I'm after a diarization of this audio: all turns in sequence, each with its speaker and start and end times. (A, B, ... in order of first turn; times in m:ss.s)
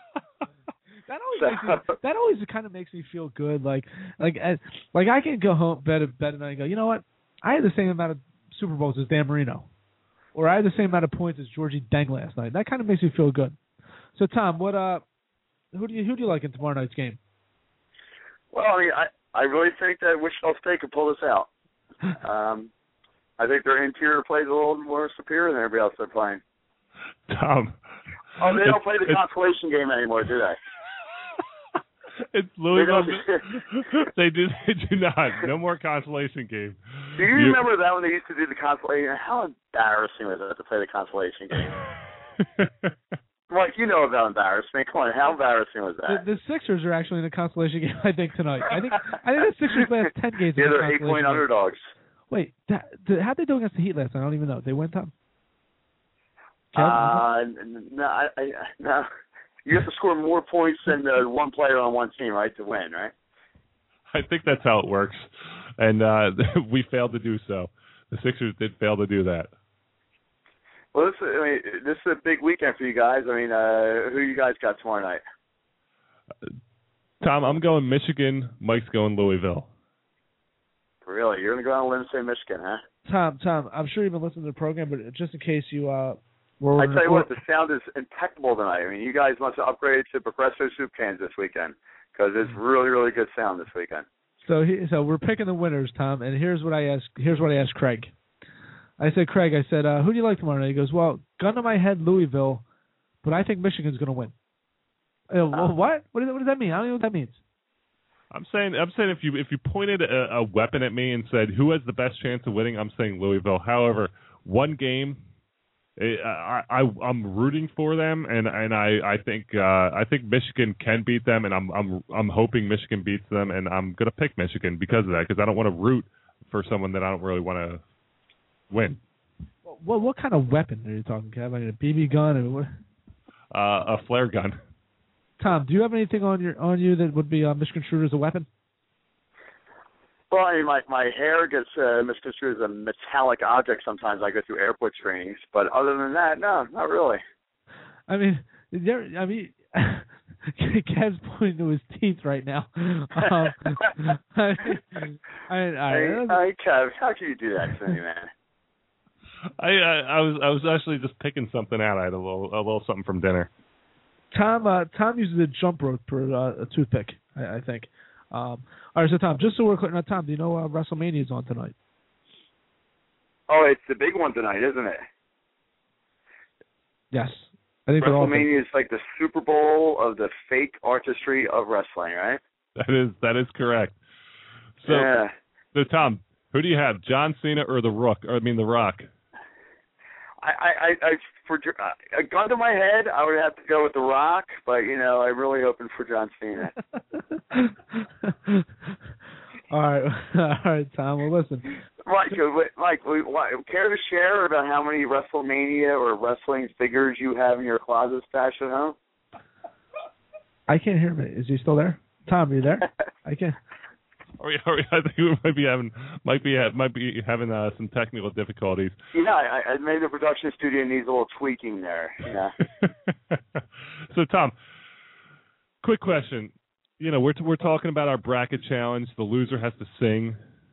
0:01.1-0:09.7 A
0:01.4-0:01.8 B
0:10.3-0:13.6 A
0:14.2-0:15.0 A
0:15.7-0:17.2 A
0:18.5-0:21.5 B
0:22.2-0:22.7 B
0:23.4-0:26.4 B
0:27.3-0:27.8 C
0:28.4-0:30.6 B
0:28.6-0:28.8 C
0:32.2-0:37.6 C
0:32.7-0:33.4 B
0:37.2-0:41.8 B
0:42.4-0:42.9 C
0:43.5-0:46.2 B
0:46.1-0:51.4 A
0:50.6-0:51.8 B
0:52.3-0:55.1 A
0:56.7-0:59.1 B
0:56.7-0:57.2 A
0:59.6-1:03.1 B
1:04.1-1:09.5 C
1:10.9-1:15.2 B
1:17.2-1:19.7 C
1:21.0-1:22.8 B
1:23.1-1:27.3 A
1:26.8-1:34.0 B
1:34.4-1:38.1 A
1:39.0-1:42.6 A
1:43.2-1:44.3 A
1:45.3-1:47.4 A
1:48.3-1:55.2 C
1:56.0-2:07.8 C
2:08.7-2:09.0 C
2:09.6-2:12.7 A
2:13.5-2:14.6 C
2:15.4-2:18.5 A
2:20.3-2:27.2 B
2:28.1-2:36.4 A
2:35.9-2:38.3 B
2:39.6-2:43.5 C
2:44.3-2:51.8 A
2:53.5-2:55.0 B
2:57.1-2:58.5 A
2:58.0-3:02.4 B
3:02.8-3:04.0 C
3:04.8-3:05.1 C
3:04.9-3:05.3 B
3:05.7-3:09.1 C
3:10.4-3:16.7 B
3:17.5-3:18.7 A
3:19.7-3:21.8 A
3:22.1-3:29.0 B
3:30.7-3:33.6 A
3:34.4-3:39.0 C
3:39.1-3:42.6 B
3:42.8-3:44.5 C
3:45.8-3:50.4 C